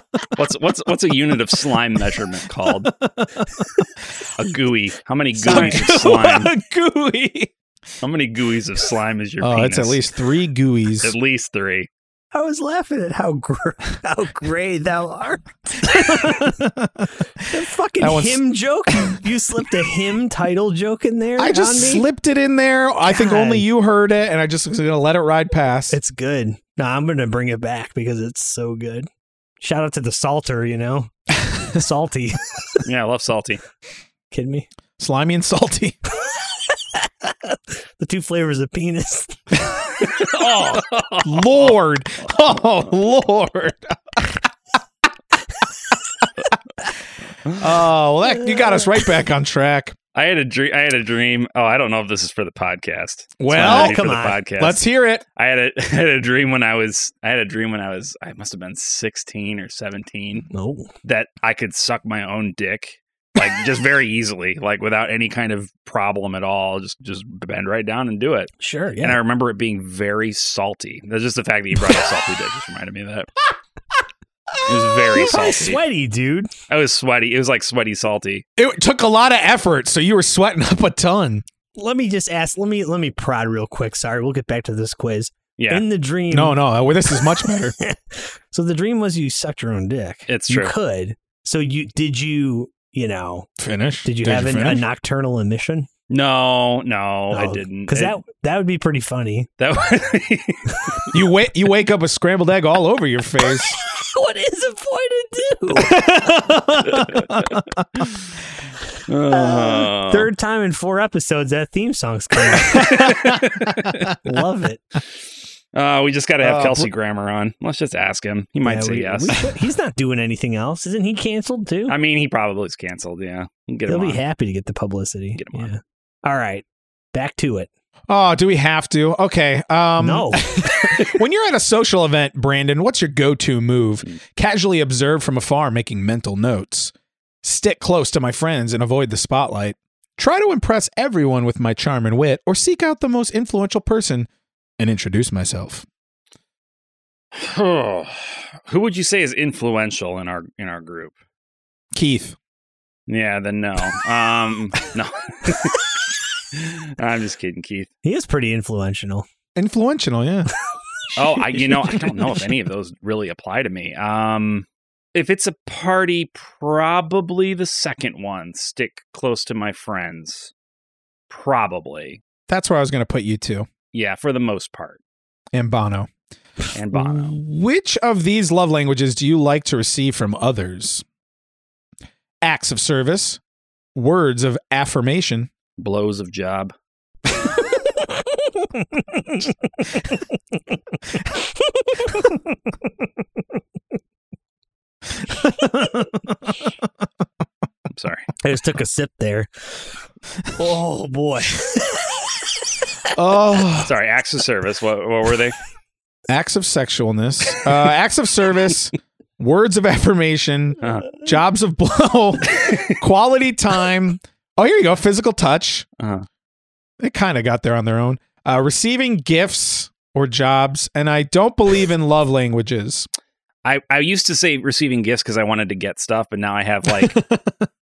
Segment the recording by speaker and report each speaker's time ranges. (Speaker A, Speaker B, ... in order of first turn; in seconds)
Speaker A: 0.4-2.9, 4.4-6.5, 8.0-10.0, 11.0-11.9, 32.9-33.6, 40.0-41.7, 50.1-54.8, 55.4-60.5, 61.0-73.3, 74.7-75.8, 76.7-78.5, 85.6-85.8, 90.3-90.7, 96.1-98.2, 99.6-101.1, 107.0-107.3, 109.1-110.3, 112.6-114.1, 115.7-119.4, 121.9-124.2, 125.4-125.7, 147.3-151.1, 153.1-155.9, 156.5-157.9, 161.2-170.5, 171.3-172.2, 173.9-175.0, 176.7-177.4, 185.8-186.7, 197.9-198.3, 203.8-205.6, 210.8-211.1, 212.5-213.0, 216.0-216.3, 223.7-227.2
Speaker B: 2.8-3.7, 5.4-7.5, 9.4-11.2, 15.9-17.1, 18.0-18.4, 21.4-26.0, 35.0-36.0, 41.2-44.4, 47.5-50.0, 53.4-55.2, 78.6-81.4, 86.3-87.8, 93.6-94.8, 101.1-103.8, 105.8-107.8, 112.8-113.3, 116.4-116.9, 128.1-136.9, 137.4-144.3, 144.8-145.9, 151.9-152.4, 159.6-160.5, 161.6-162.3, 172.5-173.7, 175.5-176.1, 176.9-181.0, 182.4-183.4, 183.9-185.5, 195.3-196.4, 203.1-203.9, 206.3-215.9, 217.0-223.1, 226.9-227.7
Speaker C: 5.4-6.0, 12.3-16.5, 17.5-22.0, 23.1-23.7, 25.9-29.1, 29.6-32.8, 34.3-34.7, 36.9-39.5, 53.5-54.4, 60.5-60.9, 68.6-69.2, 75.1-76.5, 81.8-86.6, 87.1-93.5, 94.0-95.9, 97.3-99.5, 103.5-106.1, 109.3-113.2, 114.2-114.8, 118.6-122.0, 123.9-127.7, 130.0-130.7, 158.0-159.3, 188.8-189.5, 192.0-192.4, 198.4-199.9, 200.6-202.0